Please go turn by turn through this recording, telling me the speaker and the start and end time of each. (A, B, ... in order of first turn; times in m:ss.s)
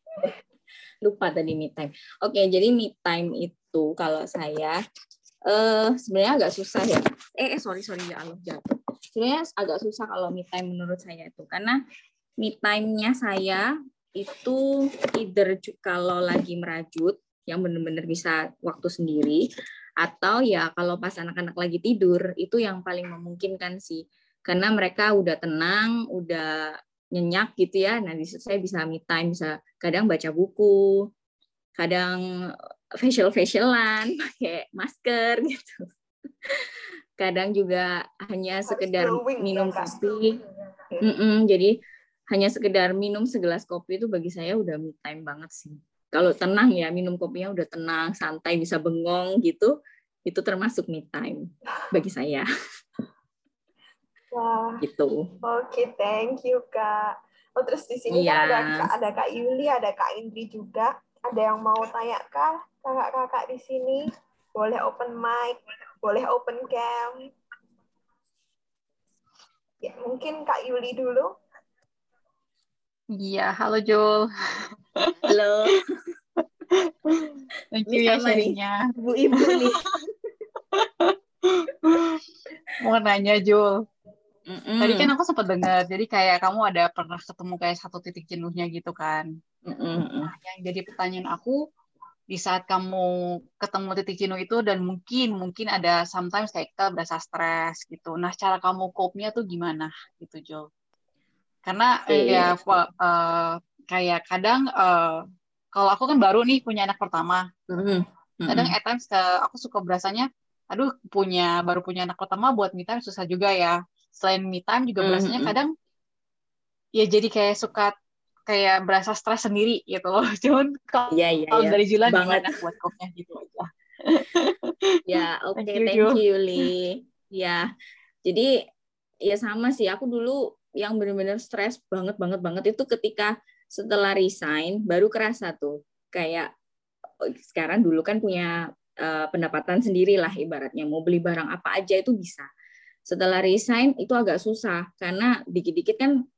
0:01.0-0:04.8 A
0:05.5-0:08.6 A
0:09.1-0:11.8 A
0:12.4-0:19.4 A
0:20.0-0:31.0 A
0:31.8-0:35.9 A
0:36.4-0:40.4 A
0:38.6-0:41.0 B
0:41.0-0:41.7 A
0:42.3-0:49.7 A
0:50.2-0:52.4 A
0:54.3-0:54.8 B
0:54.8-0:55.2 A
0:55.4-1:07.3 B
0:58.1-0:58.9 A
1:09.8-1:11.3 B
1:13.1-1:15.2 C
1:15.3-1:15.9 A
1:16.7-1:19.7 C
1:17.9-1:19.8 A
1:20.7-1:22.2 C
1:22.8-1:23.7 C
1:24.5-1:25.1 A
1:24.8-1:29.2 C
1:29.7-1:30.3 A
1:30.3-1:31.6 C
1:32.3-1:40.7 C
1:41.6-1:47.5 C
1:42.1-1:42.8 A
1:47.7-1:48.8 A
1:48.5-1:55.7 C
1:55.0-1:55.6 A
1:57.0-1:57.9 C
1:58.4-2:05.0 C
2:01.1-2:02.6 A
2:05.1-2:07.6 A
2:05.6-2:06.7 C
2:09.2-2:16.5 A
2:17.4-2:18.5 A
2:19.0-2:22.5 A
2:23.1-2:26.2 A